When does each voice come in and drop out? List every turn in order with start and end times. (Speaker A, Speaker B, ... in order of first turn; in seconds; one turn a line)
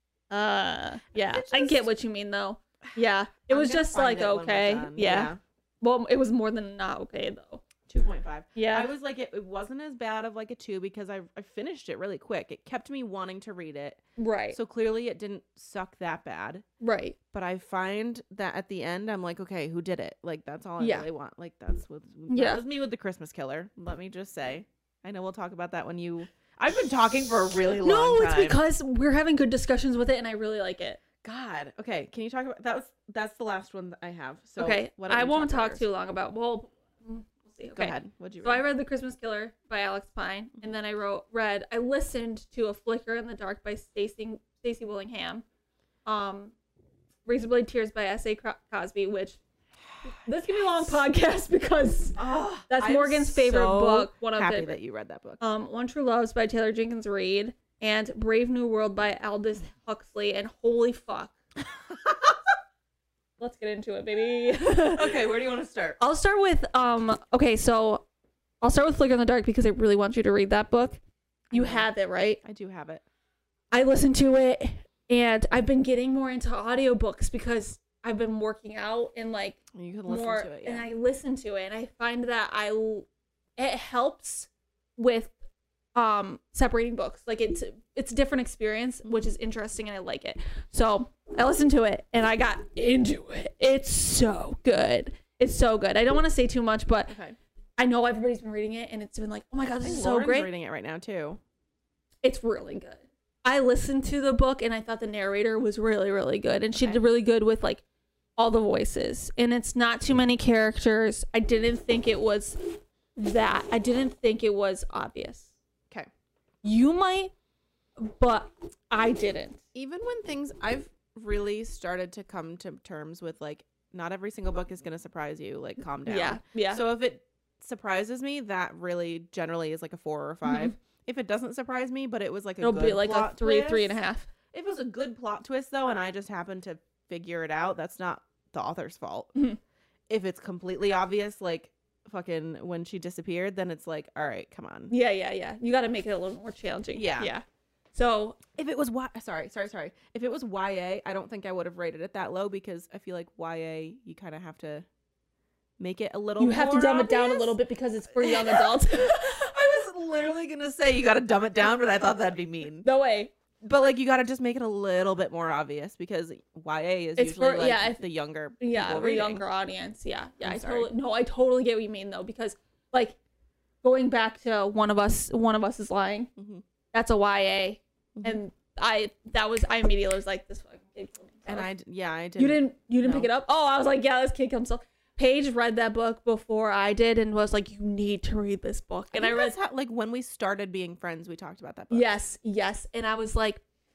Speaker A: 0.3-7.6
Speaker B: 1.1-1.9
Speaker B: 3.5-5.4
Speaker B: 7.9-14.0
Speaker A: 8.6-8.9
Speaker A: 14.2-14.6
Speaker B: 14.5-16.6
Speaker A: 16.8-17.2
Speaker B: 17.3-28.6
Speaker A: 20.8-21.1
Speaker A: 22.3-22.6
Speaker A: 27.8-31.0
Speaker B: 31.2-35.8
Speaker A: 34.6-45.5
Speaker B: 37.8-38.6
Speaker A: 46.0-46.5
Speaker A: 47.3-49.4
Speaker A: 50.1-54.8
Speaker B: 52.2-55.4
Speaker A: 55.4-61.4
Speaker B: 61.9-62.4
Speaker A: 63.4-65.2
Speaker B: 64.6-66.0
Speaker A: 66.0-68.1
Speaker A: 68.6-71.0
Speaker B: 71.5-71.9
Speaker A: 71.5-72.4
Speaker B: 72.4-73.0
Speaker A: 73.7-85.3
Speaker B: 79.7-80.9
Speaker A: 86.0-97.1
Speaker B: 97.1-97.4
Speaker A: 97.8-100.5
Speaker B: 99.8-101.4
Speaker A: 102.2-107.8
Speaker B: 106.8-107.0
Speaker A: 108.4-115.5
Speaker A: 116.6-117.3
Speaker A: 118.0-119.6
Speaker B: 119.8-134.0
Speaker A: 126.1-126.8
Speaker A: 130.4-130.7
Speaker A: 132.6-134.3
Speaker B: 134.5-139.3
Speaker B: 140.1-144.9
Speaker A: 144.9-148.4
Speaker B: 146.9-147.3
Speaker B: 148.6-154.9
Speaker B: 155.8-157.6
Speaker A: 156.4-159.4
Speaker B: 158.2-162.9
Speaker A: 162.8-163.3
Speaker B: 163.6-169.4
Speaker A: 167.2-168.0
Speaker A: 168.6-173.2
Speaker B: 170.4-170.9
Speaker A: 173.8-176.3
Speaker B: 176.4-176.6
Speaker A: 176.9-181.7
Speaker B: 181.5-183.3
Speaker A: 182.4-189.5
Speaker B: 189.1-192.1
Speaker A: 191.9-193.6